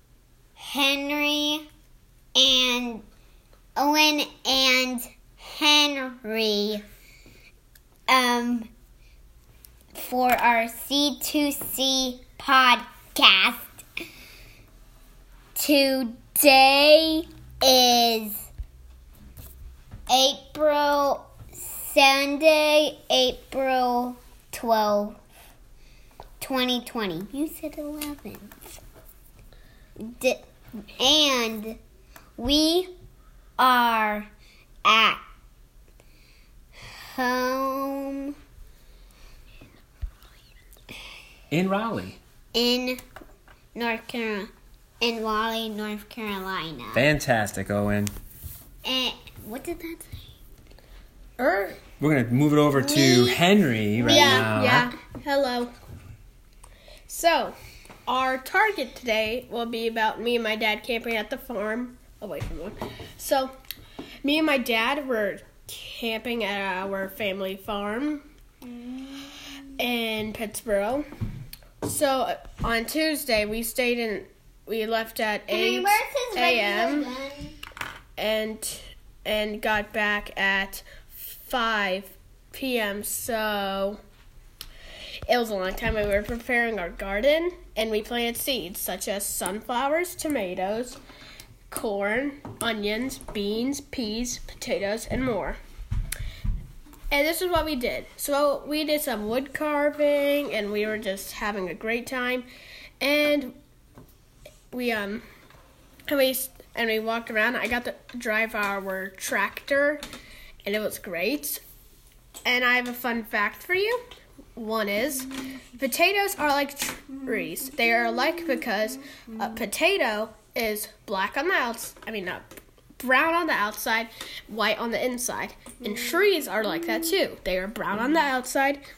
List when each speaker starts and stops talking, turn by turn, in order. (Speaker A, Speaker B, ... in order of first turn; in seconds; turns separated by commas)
Speaker A: 0.6-1.6, Speaker A: 2.4-3.0, Speaker A: 3.8-6.8, Speaker A: 8.1-8.7, Speaker A: 9.9-13.8, Speaker A: 15.6-18.5, Speaker A: 20.1-25.2, Speaker A: 26.4-28.8, Speaker A: 30.0-31.8, Speaker A: 32.4-32.9, Speaker A: 33.6-34.3, Speaker A: 34.9-35.2, Speaker A: 37.1-38.3, Speaker B: 41.5-42.2, Speaker A: 42.5-43.0, Speaker A: 43.8-44.5, Speaker A: 45.0-47.1, Speaker B: 46.9-48.1, Speaker A: 48.9-50.2, Speaker C: 51.4-51.8, Speaker B: 52.0-54.9, Speaker A: 52.7-53.4, Speaker A: 54.0-54.5, Speaker C: 54.0-55.7, Speaker C: 57.1-57.5, Speaker C: 58.1-63.5, Speaker C: 64.2-68.2, Speaker C: 69.8-71.0, Speaker C: 71.8-77.1, Speaker A: 75.5-77.6, Speaker C: 78.2-84.0, Speaker C: 85.3-91.0, Speaker C: 91.7-95.6, Speaker C: 97.1-102.5, Speaker C: 103.0-103.5, Speaker C: 104.7-105.2, Speaker C: 106.1-110.0, Speaker C: 110.6-111.6, Speaker C: 112.5-114.0, Speaker C: 114.6-122.5, Speaker C: 123.0-128.8